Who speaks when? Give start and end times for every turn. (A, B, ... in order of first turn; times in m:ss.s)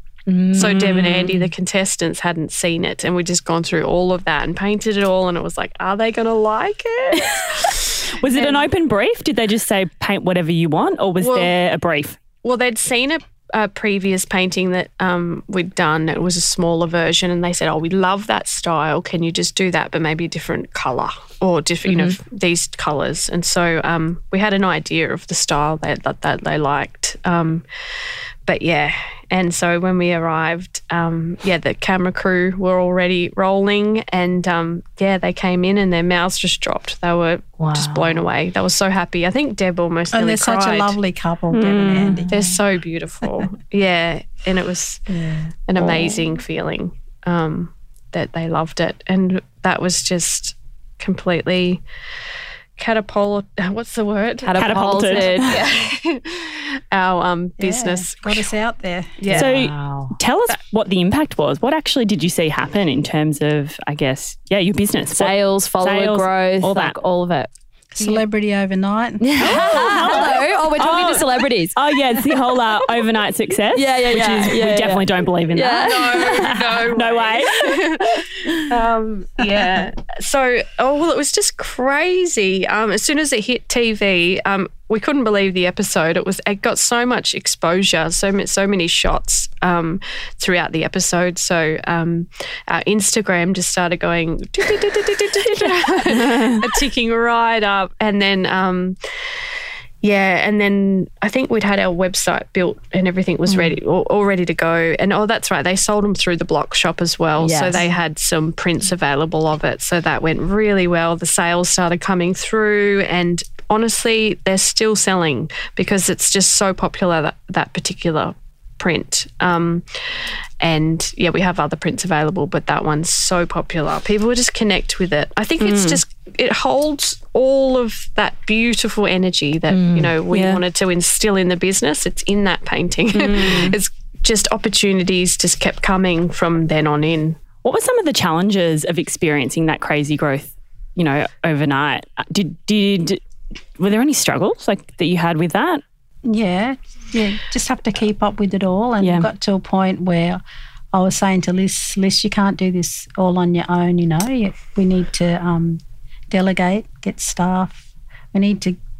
0:00.3-0:01.4 A
0:00.5-0:08.7 B
0:00.6-0:01.4 C
0:07.7-0:12.2 C
0:11.2-0:11.5 B
0:12.4-0:40.9 B
0:21.8-0:22.2 A
0:37.6-0:38.2 A
0:40.1-0:42.6 D
0:41.5-0:42.3 C
0:42.3-0:45.0 B
0:45.1-0:45.5 D
0:45.7-0:51.8 B
0:45.8-0:46.2 A
0:52.8-0:58.4 B
0:54.4-0:55.5 A
0:54.5-0:55.6 C
0:57.6-0:59.2 D
0:59.2-0:59.6 B
0:59.3-1:07.0 C
0:59.3-1:00.2 A
1:05.1-1:07.5 A
1:07.9-1:10.3 D
1:09.2-1:11.8 A
1:09.4-1:18.0 C
1:13.7-1:16.6 A
1:15.8-1:39.5 B
1:36.0-1:36.6 C
1:40.0-2:17.4 B
1:47.4-1:47.8 A
2:05.6-2:06.0 C
2:09.7-2:10.2 A
2:10.3-2:10.6 C
2:13.1-2:13.8 C
2:17.6-2:23.2 C
2:23.8-2:25.8 C
2:26.2-2:30.4 D
2:29.0-2:29.3 C
2:30.9-2:38.8 D